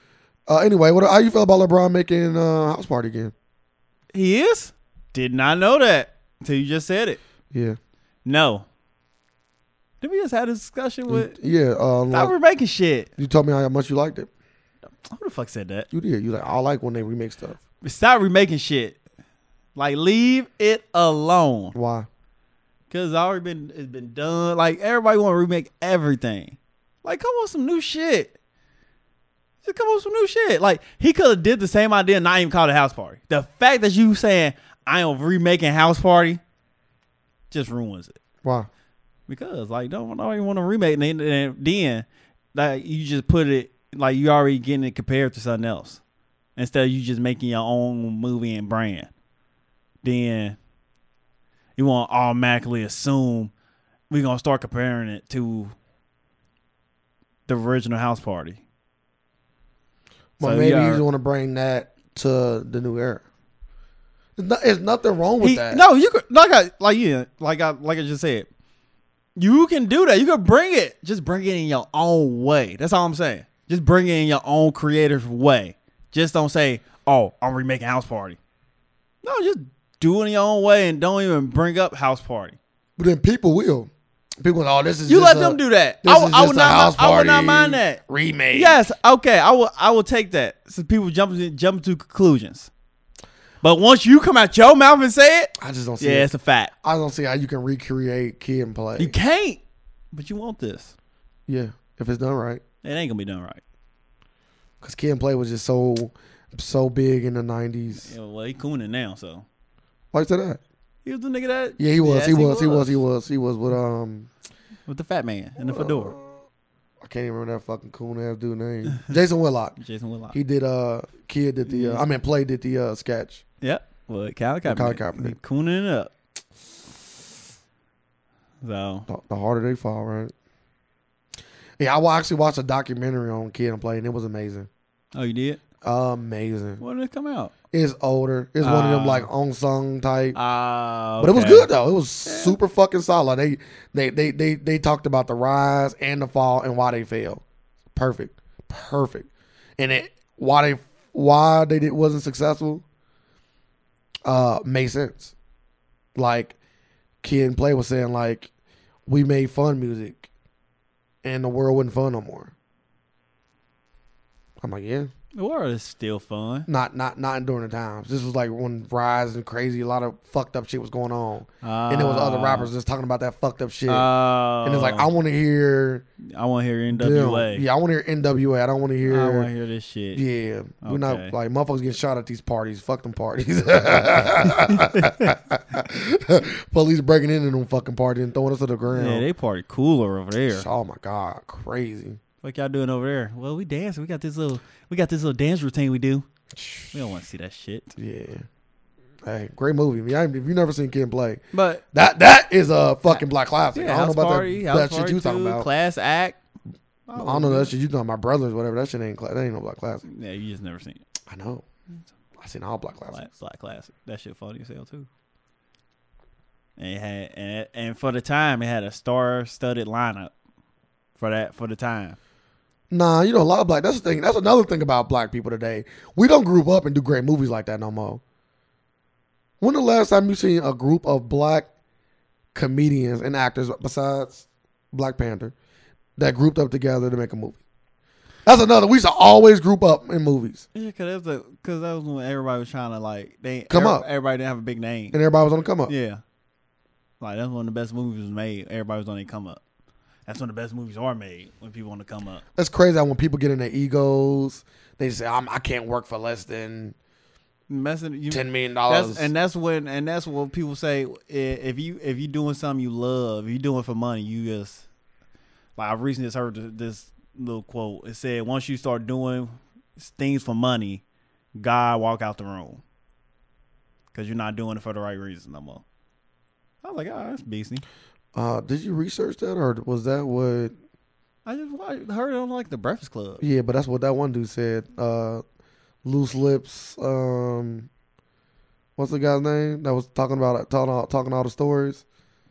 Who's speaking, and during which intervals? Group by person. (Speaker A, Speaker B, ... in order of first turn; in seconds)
Speaker A: 0.5-3.3, 7.5-7.8, 11.1-12.3, 13.2-14.3, 15.9-17.6, 21.7-22.1, 38.4-38.7, 60.4-63.2, 64.4-65.8, 83.0-88.8, 95.6-96.3, 96.8-99.1, 101.5-102.6, 104.8-108.1, 110.1-110.6, 111.8-114.3, 115.6-116.3, 117.0-119.8, 120.3-123.4, 124.7-125.4, 129.1-130.3, 131.8-134.7, 135.8-136.8, 137.7-140.4, 141.2-147.4, 147.9-152.8, 154.2-155.3, 156.2-156.6, 157.2-158.5, 159.1-160.3, 161.2-162.5, 164.6-165.1, 166.7-174.1, 174.6-176.1, 176.9-179.5, 180.1-189.3, 190.5-192.2, 196.5-196.9, 198.0-198.4, 199.2-205.7, 207.2-210.0, 211.3-211.7, 212.4-213.3, 222.9-228.2, 229.6-231.7, 232.5-235.5, 236.2-237.6, 238.4-240.6, 243.7-244.1, 245.1-245.9, 252.6-256.9, 258.3-259.3, 278.4-280.7, 283.4-285.4, 286.0-287.9, 289.0-292.0
Speaker B: 4.1-7.2, 8.2-8.7, 10.0-11.3, 12.1-13.1, 15.0-15.9, 17.8-19.0, 19.8-21.7, 22.9-28.3, 29.6-36.4, 37.5-38.2, 39.3-46.0, 46.6-49.1, 50.0-50.6, 51.8-53.5, 54.1-55.7, 57.5-58.6, 60.4-61.0, 65.4-68.5, 69.4-78.4, 79.2-82.6, 85.1-88.0, 88.5-92.7, 93.6-96.7, 99.0-99.6, 100.1-100.9, 102.8-103.6, 108.0-109.5, 111.0-113.0, 114.9-116.2, 119.8-120.4, 121.7-122.0, 123.6-126.1, 128.6-129.1, 135.1-135.6, 136.8-137.5, 138.6-139.3, 140.3-141.7, 142.3-142.6, 165.3-166.7, 171.6-172.7, 173.9-175.1, 176.2-177.6, 179.0-180.2, 180.8-181.3, 184.7-185.3, 188.9-190.7, 192.4-196.3, 196.9-197.9, 201.5-201.8, 203.1-206.4, 207.1-207.7, 210.1-211.0, 213.1-215.1, 216.8-220.3, 221.2-222.2, 240.7-245.2, 245.9-246.2, 247.2-249.6, 250.3-252.4, 257.7-264.9, 265.8-271.0, 271.6-272.8, 274.1-275.8, 276.8-277.8, 281.4-283.4